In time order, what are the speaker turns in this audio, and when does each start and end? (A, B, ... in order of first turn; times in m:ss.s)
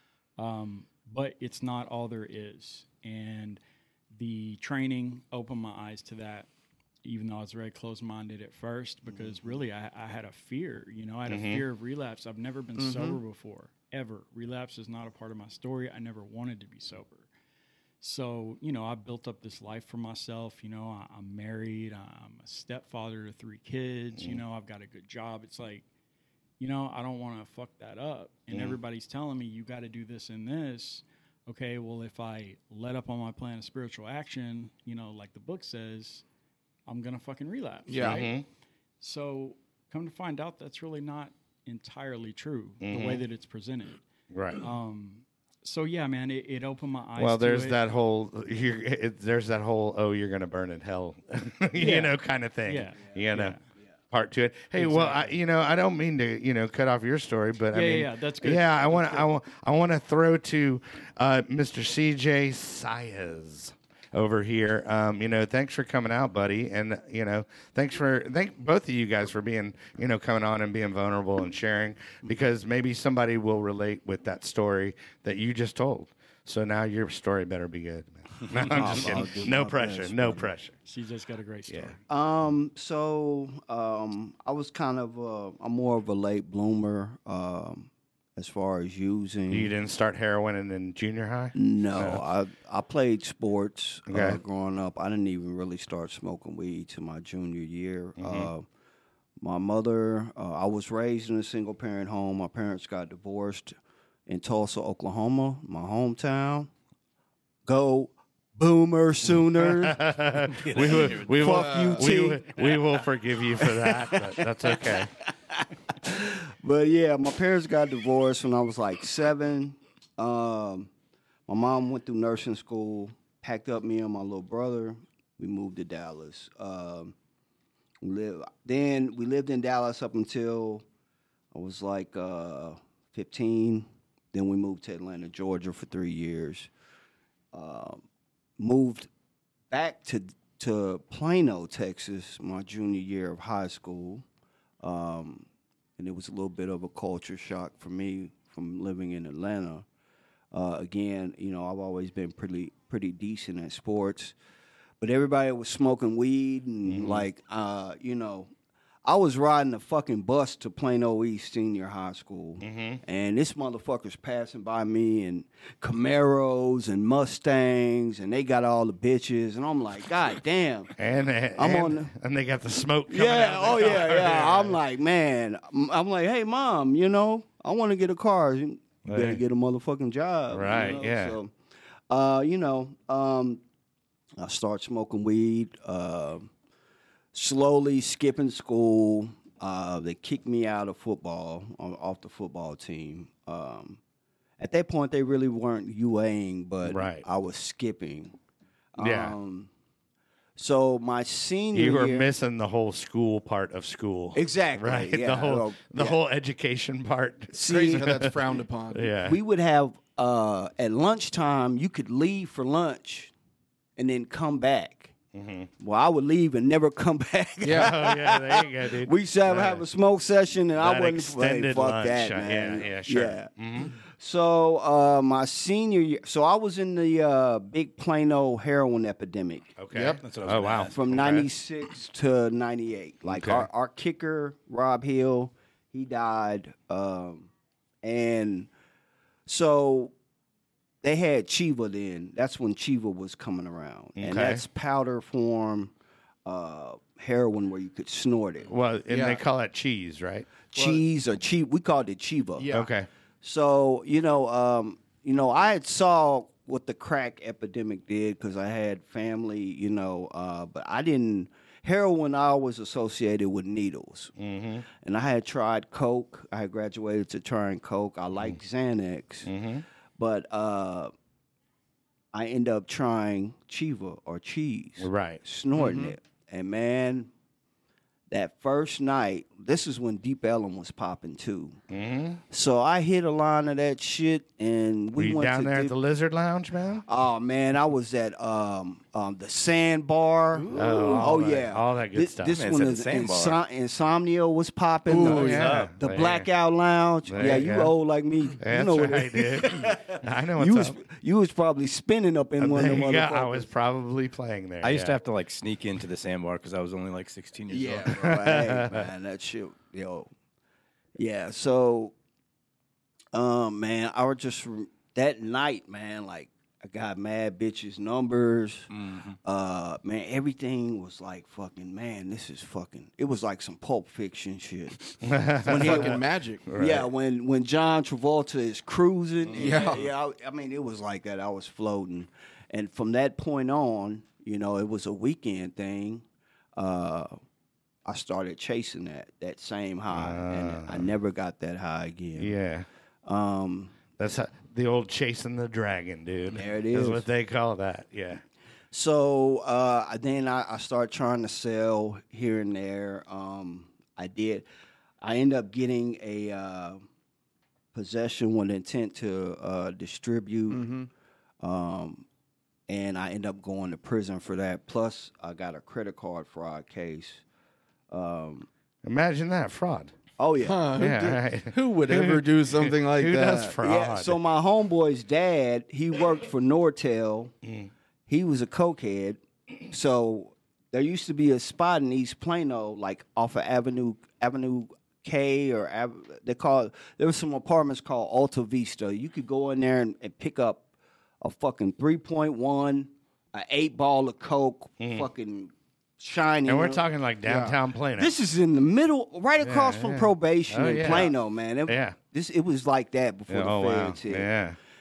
0:00.4-0:03.6 A
0:04.1-0:06.5 A
0:07.0-0:17.3 A
0:11.3-0:11.6 B
0:12.8-0:13.2 C
0:18.0-0:25.8 A
0:24.2-0:24.4 B
0:26.6-0:36.2 A
0:28.5-0:28.8 B
0:36.9-0:38.4 A
0:37.9-0:38.2 C
0:38.0-0:38.4 B
0:39.0-0:44.0 A
0:42.8-0:43.2 B
0:44.3-0:44.6 B
0:44.6-0:47.8 A
0:47.2-0:53.6 B
0:51.7-0:52.1 A
0:52.6-0:53.6 A
0:54.1-1:20.7 B
0:54.8-0:55.3 A
0:57.7-0:59.3 A
1:18.5-1:20.5 D
1:20.8-1:22.0 A
1:21.7-1:21.9 B
1:22.1-1:29.7 D
1:29.5-1:32.2 B
1:31.5-1:38.7 D
1:34.1-1:34.4 B
1:38.2-1:38.5 B
1:39.4-1:46.7 D
1:47.6-1:50.0 D
1:49.6-1:55.1 B
1:50.5-1:51.6 E
1:50.9-1:53.0 D
1:51.4-1:52.1 C
1:53.6-2:00.9 D
2:01.5-2:07.1 D
2:08.0-2:10.8 D
2:11.5-2:16.7 D
2:17.5-2:18.0 D
2:18.6-2:19.1 D
2:19.7-2:24.2 D
2:24.8-2:25.5 D
2:26.0-2:29.8 D
2:30.5-2:34.3 D
2:35.0-2:38.5 D
2:36.8-2:37.2 B
2:39.0-2:50.9 D
2:42.6-2:43.0 B
2:51.0-2:54.8 B
2:51.6-2:52.1 D
2:53.1-3:01.5 D
2:59.0-2:59.4 B
3:00.5-3:01.4 B
3:02.1-3:03.6 D
3:04.4-3:06.5 D
3:07.3-3:14.0 D
3:14.6-3:18.4 D
3:16.8-3:17.2 B
3:18.9-3:19.7 D
3:19.0-3:19.3 B
3:20.6-3:22.3 D
3:21.7-3:28.3 B
3:24.3-3:26.2 D
3:27.5-3:28.1 D
3:27.6-3:29.1 C
3:28.9-3:29.4 B
3:29.2-3:33.3 D
3:34.0-3:35.1 D
3:35.3-3:35.7 B
3:35.8-3:49.8 D
3:37.6-3:37.9 C
3:37.7-3:39.8 B
3:40.8-3:43.9 B
3:49.8-3:51.5 B
3:49.9-3:50.2 C
3:50.0-3:51.1 E
3:50.9-3:57.5 D
3:53.3-3:53.7 B
3:58.0-3:58.7 D
3:59.5-4:00.1 D
4:01.0-4:05.9 D
4:04.2-4:04.6 B
4:06.4-4:08.7 D
4:08.7-4:10.5 B
4:09.1-4:09.4 C
4:10.7-4:12.7 D
4:10.8-4:11.0 C
4:12.6-4:12.9 C
4:12.7-4:13.1 B
4:13.4-4:24.3 D
4:24.4-4:24.8 B
4:24.8-4:29.5 D
4:29.4-4:29.8 B
4:30.2-4:31.1 D
4:32.3-4:37.3 D
4:35.0-4:35.4 B
4:35.7-4:36.1 C
4:38.3-4:41.8 D
4:41.9-4:42.4 B
4:42.5-4:45.9 D
4:45.2-4:47.0 B
4:47.0-5:03.7 D
4:50.6-4:51.2 E
4:50.7-4:52.6 B
4:52.5-4:53.6 E
4:55.1-4:55.9 C
4:55.2-4:56.5 B
4:57.3-4:57.9 B
4:58.6-5:01.0 B
5:02.6-5:05.2 B
5:04.8-5:08.5 E
5:07.7-5:10.3 D
5:08.1-5:09.0 B
5:11.2-5:12.1 D
5:13.3-5:18.9 D
5:18.9-5:19.4 E
5:19.4-5:37.3 D
5:25.2-5:27.1 B
5:25.6-5:26.7 C
5:29.5-5:30.1 C
5:29.5-5:29.9 E
5:38.0-5:42.5 D
5:40.1-5:41.1 B
5:42.4-5:42.8 B
5:43.2-5:44.1 D
5:44.2-5:48.4 B
5:46.5-5:47.2 D
5:48.9-5:54.6 D
5:55.2-5:57.0 D
5:57.9-6:00.9 D
6:00.7-6:01.1 C
6:01.6-6:02.2 D
6:02.9-6:07.4 D
6:08.1-6:08.7 D
6:09.0-6:10.1 B
6:10.4-6:10.9 D
6:10.6-6:13.8 C
6:10.9-6:14.4 B
6:13.8-6:17.5 D
6:18.3-6:30.8 D
6:31.4-6:37.0 D
6:35.0-6:35.2 B
6:36.6-6:38.3 B
6:37.4-6:37.8 C
6:38.2-6:44.5 D
6:39.6-6:41.3 B
6:41.9-6:42.2 B
6:43.5-6:44.8 B